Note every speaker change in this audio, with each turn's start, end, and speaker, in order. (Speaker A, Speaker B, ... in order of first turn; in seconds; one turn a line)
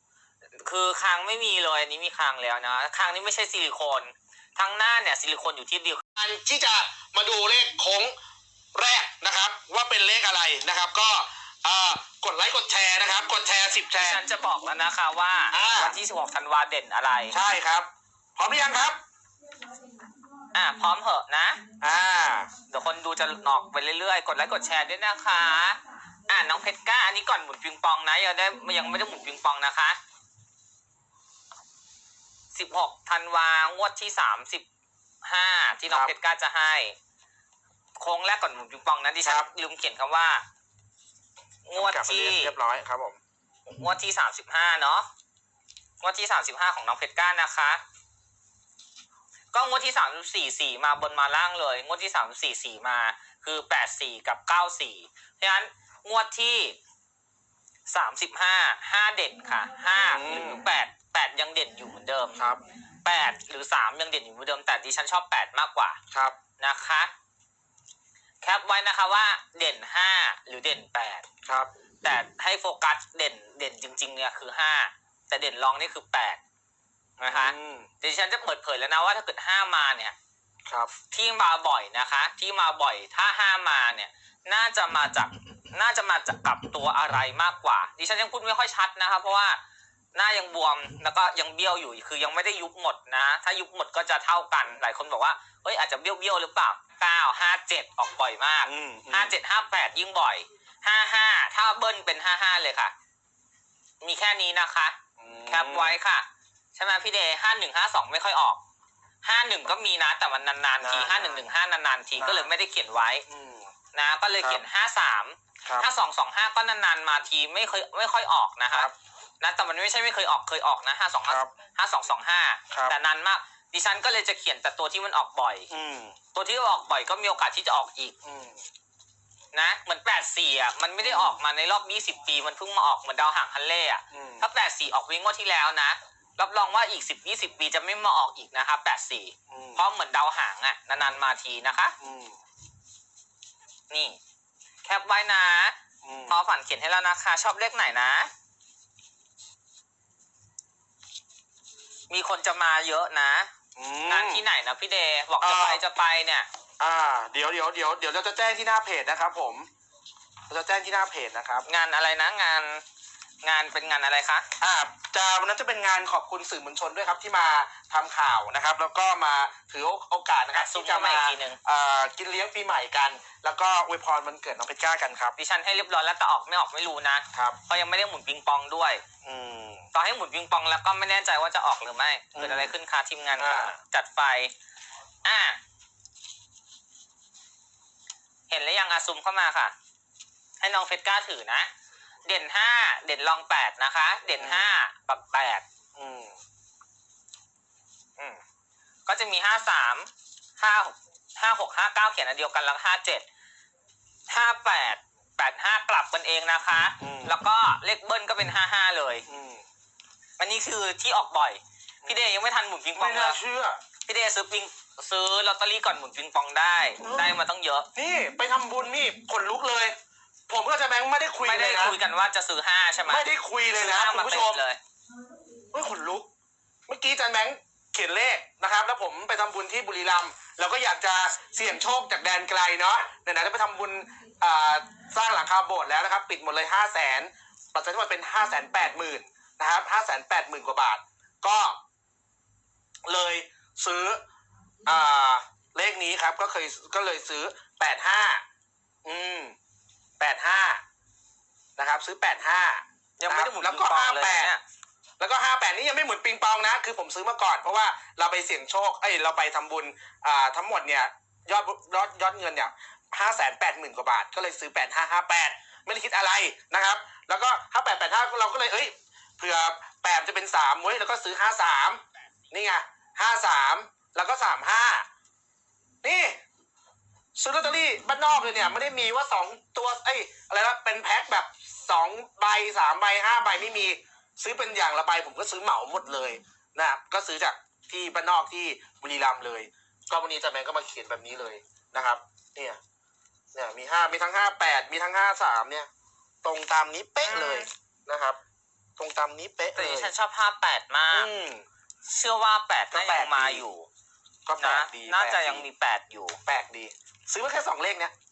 Speaker A: 0.6-6.0
Speaker B: 6.2-8.1
Speaker B: 8.8-14.2
Speaker A: 13.9-17.4
Speaker B: 15.5-16.0
Speaker B: 17.3-19.0
Speaker A: 20.5-21.6
Speaker B: 21.8-22.5
Speaker A: 22.7-30.0
Speaker A: 32.5-34.6
Speaker A: 35.2-37.0
Speaker A: 38.0-40.4
Speaker B: 39.2-39.5
Speaker A: 41.7-42.6
Speaker B: 41.8-43.2
Speaker A: 43.7-45.1
Speaker A: 46.0-47.8
Speaker A: 49.5-56.8
Speaker A: 57.9-62.4
Speaker B: 60.0-60.6
Speaker A: 63.0-66.0
Speaker B: 66.1-66.4
Speaker A: 66.6-67.1
Speaker A: 68.4-71.3
Speaker A: 72.0-76.4
Speaker A: 77.2-80.2
Speaker B: 77.2-77.9
Speaker A: 81.1-89.6
Speaker A: 90.1-102.9
Speaker B: 98.6-99.3
Speaker A: 104.0-105.0
Speaker B: 105.2-106.0
Speaker A: 105.5-108.6
Speaker A: 109.2-113.2
Speaker B: 110.8-111.5
Speaker B: 112.2-112.5
Speaker B: 113.3-113.7
Speaker A: 113.9-125.7
Speaker B: 125.7-126.2
Speaker A: 126.3-128.2
Speaker B: 128.2-128.6
Speaker A: 129.5-141.9
Speaker B: 131.0-131.4
Speaker B: 134.1-134.5
Speaker B: 139.5-139.8
Speaker B: 142.0-142.4
Speaker A: 143.9-144.2
Speaker A: 144.8-145.8
Speaker B: 146.0-146.4
Speaker A: 146.3-148.3
Speaker A: 152.1-153.5
Speaker B: 153.8-154.5
Speaker A: 154.1-156.5
Speaker B: 155.4-155.8
Speaker B: 156.8-159.7
Speaker B: 160.5-161.7
Speaker A: 161.7-162.8
Speaker A: 163.4-164.5
Speaker B: 164.6-175.4
Speaker A: 170.5-171.6
Speaker A: 175.4-179.0
Speaker B: 179.2-179.9
Speaker A: 179.9-184.5
Speaker B: 182.3-182.7
Speaker B: 183.4-183.8
Speaker A: 185.2-185.6
Speaker A: 188.5-189.7
Speaker A: 190.6-191.7
Speaker A: 192.3-195.7
Speaker B: 194.4-194.7
Speaker B: 195.9-196.4
Speaker A: 199.1-203.2
Speaker A: 204.3-209.2
Speaker B: 207.0-207.3
Speaker B: 209.3-209.6
Speaker A: 210.4-213.4
Speaker B: 212.9-213.8
Speaker A: 214.1-217.9
Speaker B: 217.0-217.3
Speaker B: 217.9-219.9
Speaker B: 220.5-222.0
Speaker A: 221.4-224.8
Speaker B: 223.1-224.6
Speaker B: 225.7-226.3
Speaker B: 226.9-241.8
Speaker B: 243.1-244.2
Speaker B: 244.8-248.4
Speaker B: 249.1-249.6
Speaker B: 250.2-250.8
Speaker B: 251.8-254.6
Speaker A: 253.2-254.6
Speaker B: 255.2-275.1
Speaker B: 276.0-276.4
Speaker B: 277.4-292.8
Speaker B: 293.6-295.9
Speaker B: 296.4-298.4
Speaker A: 297.2-297.7
Speaker B: 299.0-300.1
Speaker A: 299.8-301.3
Speaker B: 301.1-301.7
Speaker A: 302.1-303.9
Speaker B: 302.9-303.6
Speaker B: 304.5-305.7
Speaker A: 304.6-306.4
Speaker B: 306.5-308.1